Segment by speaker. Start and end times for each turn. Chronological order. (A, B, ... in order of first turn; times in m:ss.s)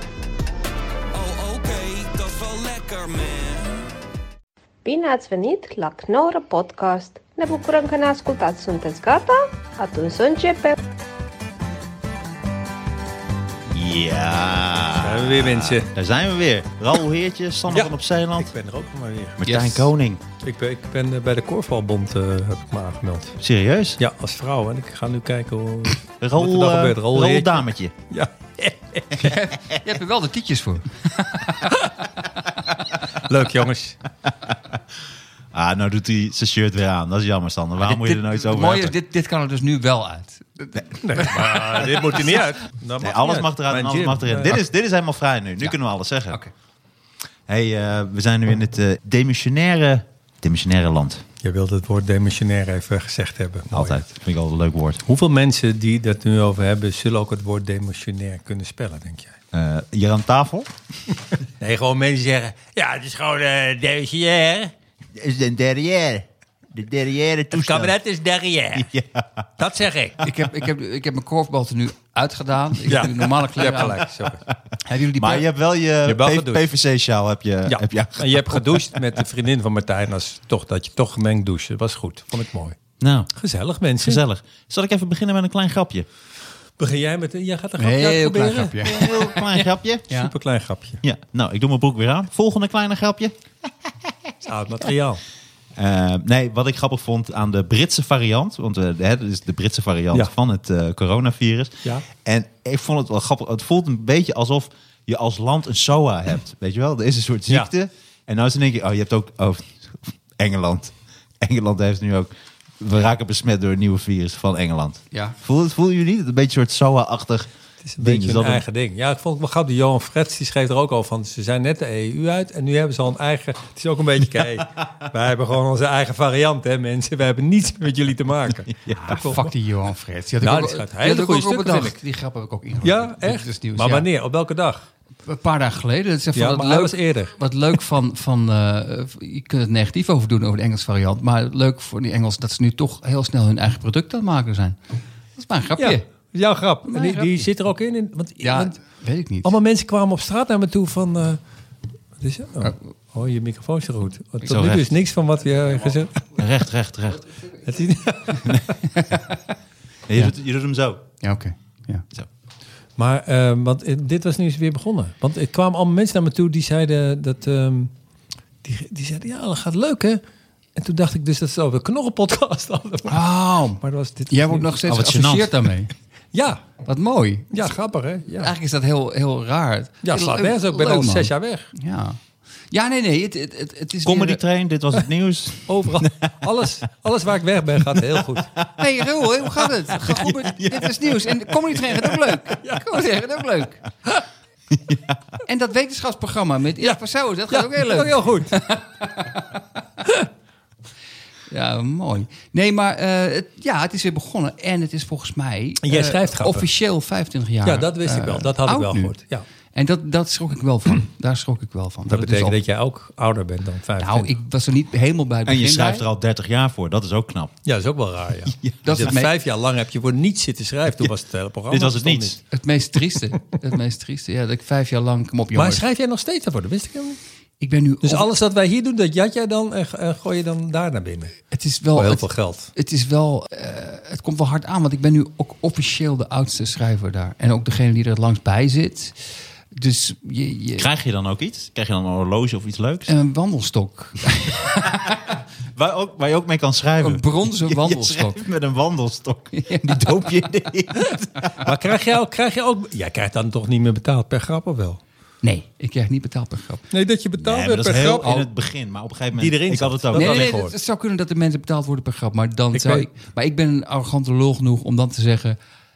0:01.1-0:03.9 A
0:04.8-0:10.8 B
0:13.7-0:18.5 C
0:15.0-0:15.9 D
0:17.7-0:19.4 D
0:19.4-0:20.2 C
0:19.4-0:19.9 E
0:20.4-0:23.4 D
0:23.4-0:24.0 C
0:24.0-0:29.4 D
0:26.2-0:27.9 C
0:29.2-0:31.7 E
0:31.6-0:32.0 D
0:33.1-0:34.0 D
0:35.5-0:39.0 C
0:37.8-0:41.9 E
0:40.9-0:44.6 D
0:43.0-0:46.4 C
0:47.5-0:51.2 C
0:51.4-0:54.1 D
0:53.7-0:55.0 C
0:55.1-0:59.4 D
0:59.5-1:00.7 C
1:01.6-1:04.7 D
1:05.1-1:08.0 C
1:07.5-1:08.9 D
1:08.7-1:09.4 C
1:09.6-1:10.2 D
1:10.2-1:14.1 E
1:12.9-1:14.5 D
1:14.8-1:15.5 E
1:15.1-1:19.2 C
1:16.0-1:16.6 D
1:17.7-1:22.8 D
1:23.0-1:23.3 C
1:23.3-1:24.2 D
1:24.0-1:26.1 C
1:26.8-1:28.8 D
1:27.8-1:30.3 E
1:28.8-1:30.1 C
1:30.1-1:31.0 D
1:31.0-1:33.4 C
1:34.4-1:35.2 D
1:35.8-1:58.6 C
1:57.8-2:09.5 D
2:08.7-2:09.2 C
2:09.0-2:14.1 E
2:10.4-2:12.0 D
2:12.8-2:14.9 D
2:15.3-2:24.8 E
2:16.4-2:17.3 D
2:25.4-2:26.0 E
2:25.8-2:28.8 D
2:26.9-2:27.4 E
2:28.4-2:29.6 E
2:29.4-2:31.4 D
2:32.2-2:36.2 D
2:34.4-2:34.9 C
2:36.4-2:37.2 C
2:37.6-2:38.6 D
2:38.9-2:39.4 E
2:40.1-2:41.0 C
2:41.2-2:42.0 E
2:43.0-2:47.9 D
2:48.6-2:50.2 D
2:50.8-2:53.2 D
2:53.1-2:55.9 E
2:53.8-2:54.7 D
2:54.9-2:55.8 C
2:56.3-2:56.7 D
2:56.9-2:57.6 E
2:57.5-2:58.5 D
2:58.4-3:02.2 E
3:00.0-3:01.7 D
3:02.7-3:04.4 E
3:04.0-3:06.3 C
3:05.7-3:08.5 D
3:08.6-3:08.8 C
3:08.8-3:13.8 E
3:09.5-3:12.3 C
3:12.6-3:13.0 D
3:14.7-3:15.2 C
3:15.5-3:19.6 E
3:17.5-3:18.6 D
3:21.5-3:29.2 E
3:25.8-3:26.7 D
3:27.6-3:29.4 D
3:29.7-3:32.6 E
3:32.1-3:34.3 D
3:34.0-3:36.0 E
3:35.5-3:37.6 C
3:37.6-3:42.4 D
3:38.6-3:39.1 C
3:38.8-3:39.3 E
3:41.7-3:42.4 C
3:42.5-3:45.8 E
3:45.6-3:47.2 D
3:47.6-3:48.3 E
3:48.0-3:51.4 D
3:51.5-4:00.9 E
3:52.0-3:52.7 D
4:00.8-4:03.1 C
4:03.1-4:05.3 E
4:05.7-4:11.6 C
4:07.0-4:08.4 E
4:09.6-4:10.0 E
4:11.6-4:15.0 D
4:15.4-4:16.8 E
4:16.9-4:18.3 D
4:17.4-4:20.5 C
4:18.2-4:18.5 E
4:19.4-4:20.7 D
4:20.1-4:25.6 E
4:22.7-4:23.1 D